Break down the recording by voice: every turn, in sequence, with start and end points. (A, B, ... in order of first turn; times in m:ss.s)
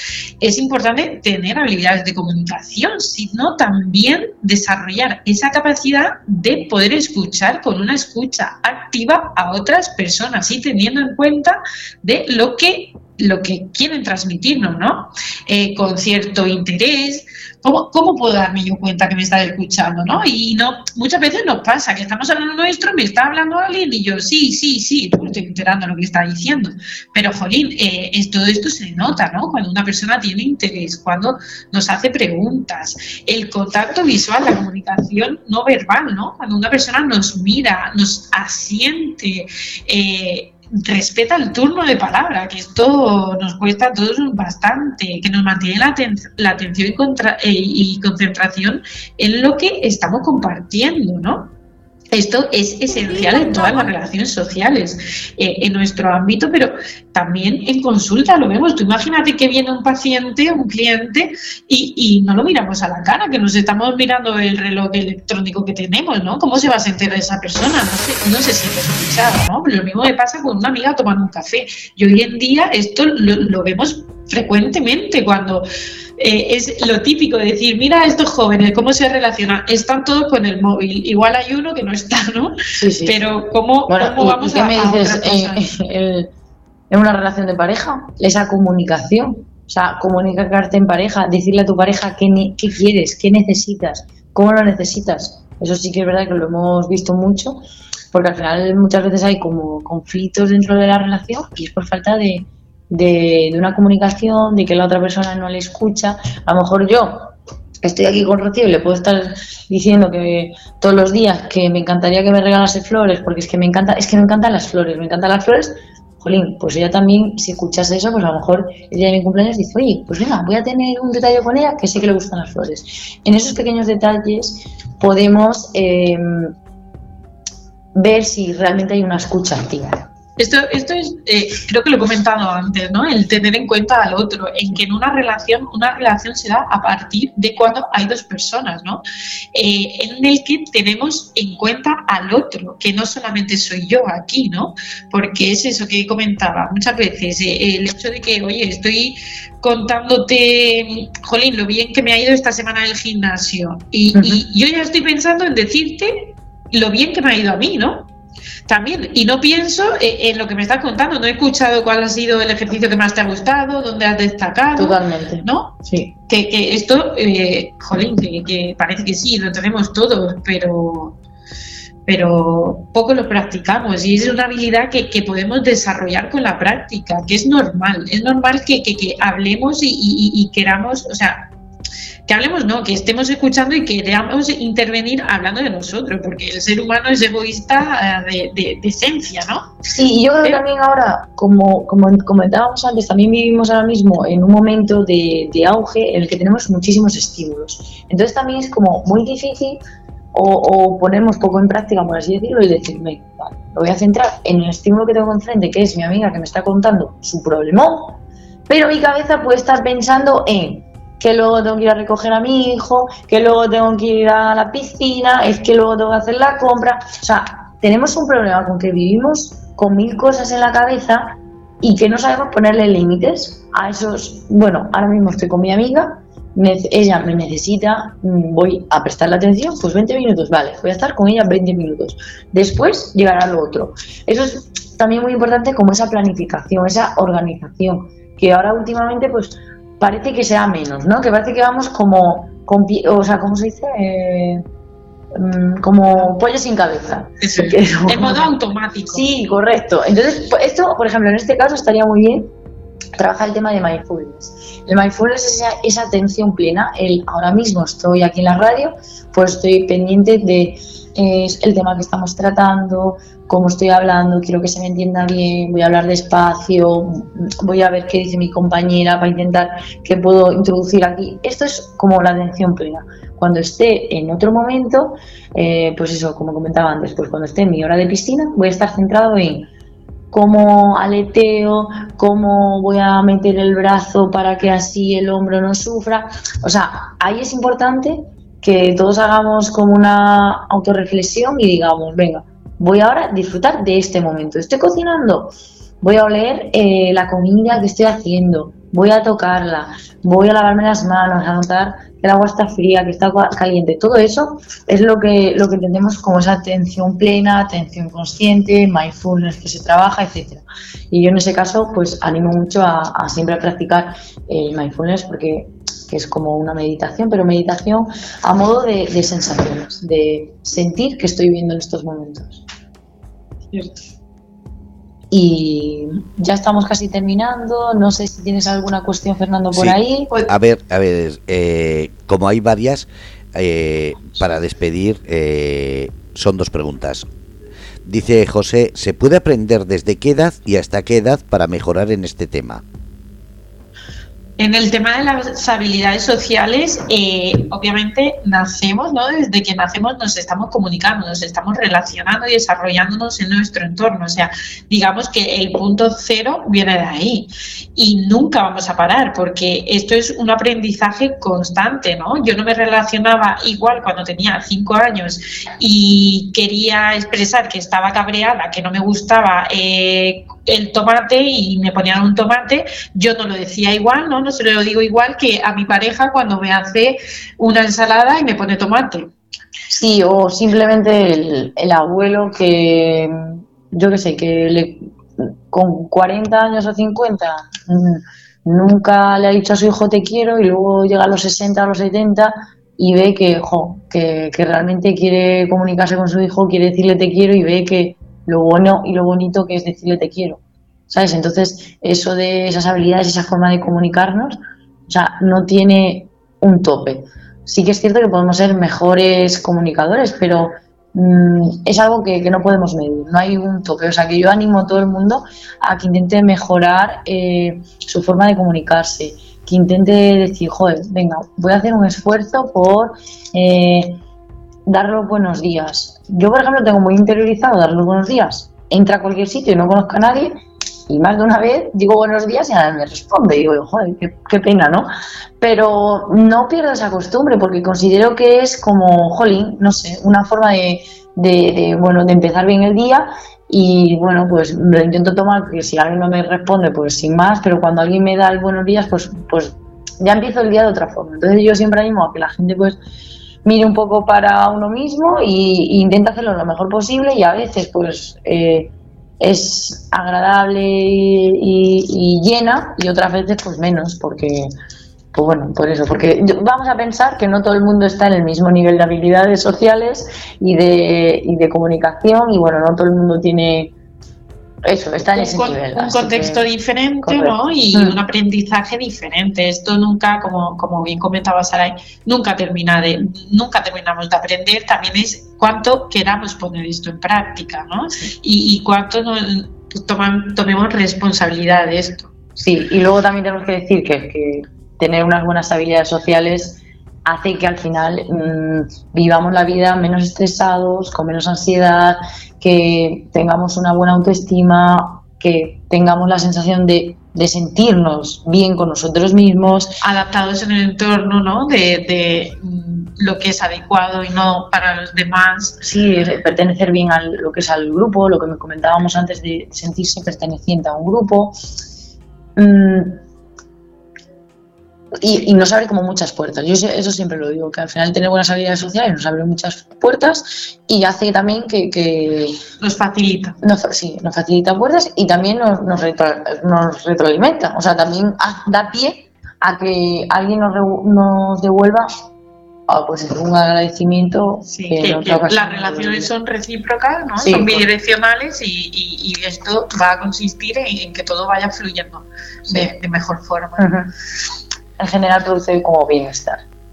0:00.4-0:51.5 A
0:52.1-1:15.6 A
1:16.2-1:25.7 A
1:22.8-1:23.2 B
1:23.9-1:26.3 B
1:26.9-2:06.5 B
2:07.9-2:10.0 B
2:10.4-2:19.0 A
2:19.5-2:38.1 A
2:34.1-2:34.4 B
2:38.7-2:51.2 A
2:44.8-2:46.1 B
2:52.0-3:01.5 A
3:02.3-3:09.7 A
3:09.8-3:19.8 B
3:20.3-4:04.6 B
4:05.3-4:08.5 B
4:07.4-4:09.2 A
4:09.1-4:12.5 B
4:13.2-4:39.7 B
4:40.3-5:22.6 B
5:23.7-5:24.1 A
5:25.3-5:30.3 B
5:29.7-5:37.2 C
5:38.0-5:42.8 C
5:44.6-6:19.3 A
6:19.9-7:04.2 B
7:04.8-7:10.5 B
7:11.1-7:33.0 B
7:33.6-7:44.7 B
7:45.3-7:53.9 B
7:54.8-7:56.6 B
7:55.3-8:12.3 A
7:57.2-7:58.2 B
8:12.6-8:30.0 B
8:30.0-8:35.8 A
8:35.8-8:41.7 B
8:42.6-8:43.2 B
8:45.2-8:52.6 B
8:52.8-8:53.6 A
8:53.6-9:02.2 B
9:02.9-9:06.3 B
9:04.7-9:13.9 A
9:07.4-9:07.9 B
9:13.8-9:14.1 B
9:15.0-9:16.6 B